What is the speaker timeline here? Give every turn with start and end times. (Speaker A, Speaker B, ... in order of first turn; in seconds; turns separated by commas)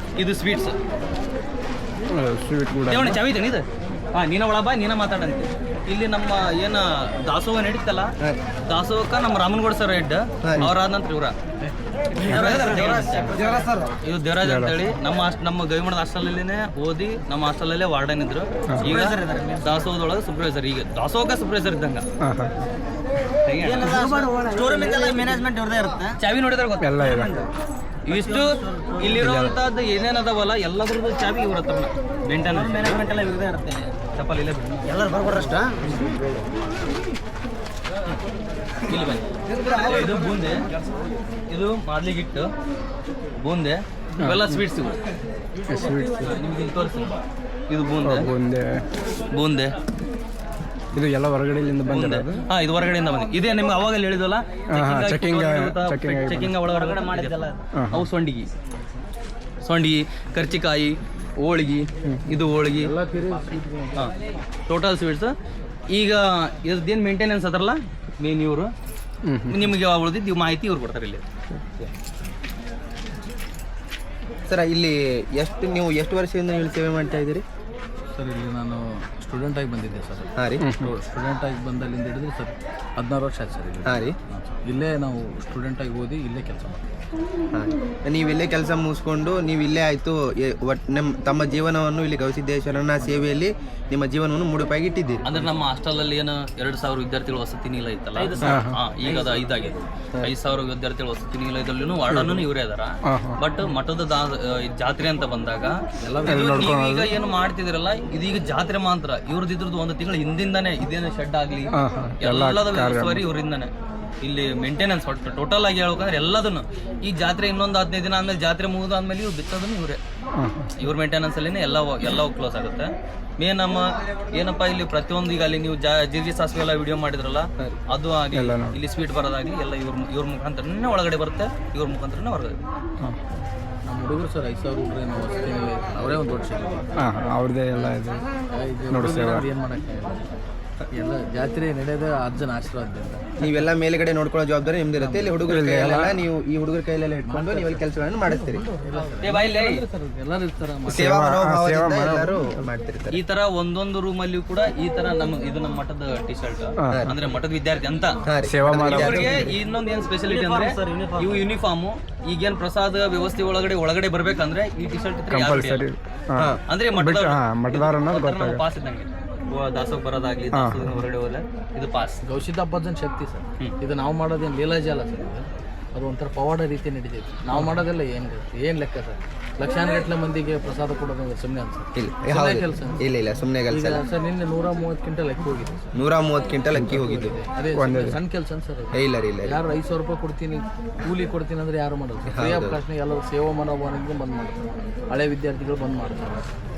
Speaker A: 0.2-0.8, Speaker B: 2.1-3.2, Speaker A: 2.9-8.1, Speaker A: 8.6-11.3, Speaker C: 10.4-10.7, Speaker A: 12.1-22.0, Speaker D: 12.2-13.9, Speaker B: 14.4-14.8, Speaker B: 18.7-18.9, Speaker D: 18.8-19.7, Speaker B: 22.2-22.5, Speaker A: 23.4-24.2, Speaker D: 23.6-26.2, Speaker A: 26.2-27.1, Speaker B: 26.8-27.4, Speaker D: 27.0-27.5, Speaker A: 28.1-33.1, Speaker D: 28.1-29.3, Speaker B: 29.2-29.5, Speaker D: 32.4-33.9, Speaker A: 34.1-35.0, Speaker D: 34.8-36.5, Speaker A: 38.8-40.7, Speaker A: 41.5-42.5, Speaker A: 43.4-45.0, Speaker B: 44.2-44.5, Speaker B: 45.7-46.3, Speaker A: 46.2-47.2, Speaker A: 47.7-48.3, Speaker B: 48.0-48.9, Speaker A: 49.3-49.7, Speaker B: 50.9-52.4, Speaker A: 51.9-57.4, Speaker B: 54.7-56.6, Speaker D: 56.7-57.6, Speaker B: 57.7-58.1, Speaker A: 57.9-58.5, Speaker A: 59.6-62.9, Speaker E: 62.7-64.1, Speaker A: 64.7-65.3, Speaker A: 65.9-68.7, Speaker B: 69.2-69.7, Speaker A: 69.5-71.2, Speaker C: 74.5-77.4, Speaker E: 78.1-86.8, Speaker C: 80.3-80.6, Speaker B: 80.6-80.9, Speaker C: 83.8-84.2, Speaker C: 87.5-95.3, Speaker A: 95.2-113.7, Speaker D: 98.2-99.5, Speaker B: 98.4-98.8, Speaker C: 102.1-102.5, Speaker B: 103.0-103.4, Speaker E: 106.0-106.7, Speaker B: 106.3-107.1, Speaker B: 111.7-113.2, Speaker A: 114.2-120.0, Speaker B: 120.4-120.7, Speaker A: 120.8-132.6, Speaker B: 128.3-128.8, Speaker E: 133.8-136.9, Speaker B: 137.0-138.2, Speaker E: 138.5-140.3, Speaker B: 138.9-139.5, Speaker E: 140.9-143.6, Speaker C: 143.4-148.6, Speaker E: 144.9-145.5, Speaker B: 145.4-146.1, Speaker E: 147.2-151.1, Speaker A: 149.2-149.8, Speaker C: 150.9-153.2, Speaker B: 150.9-152.4, Speaker A: 153.1-158.2, Speaker B: 156.8-157.1, Speaker C: 156.9-157.1, Speaker C: 158.3-159.5, Speaker B: 158.4-159.3, Speaker A: 158.9-165.8, Speaker D: 160.2-161.4, Speaker B: 165.3-168.6, Speaker A: 166.7-172.2, Speaker B: 170.5-171.0, Speaker E: 172.2-183.1, Speaker C: 181.9-184.0, Speaker E: 183.7-185.9, Speaker C: 185.9-187.4, Speaker E: 186.7-196.5, Speaker B: 187.7-188.2, Speaker C: 188.9-189.6, Speaker C: 192.3-192.8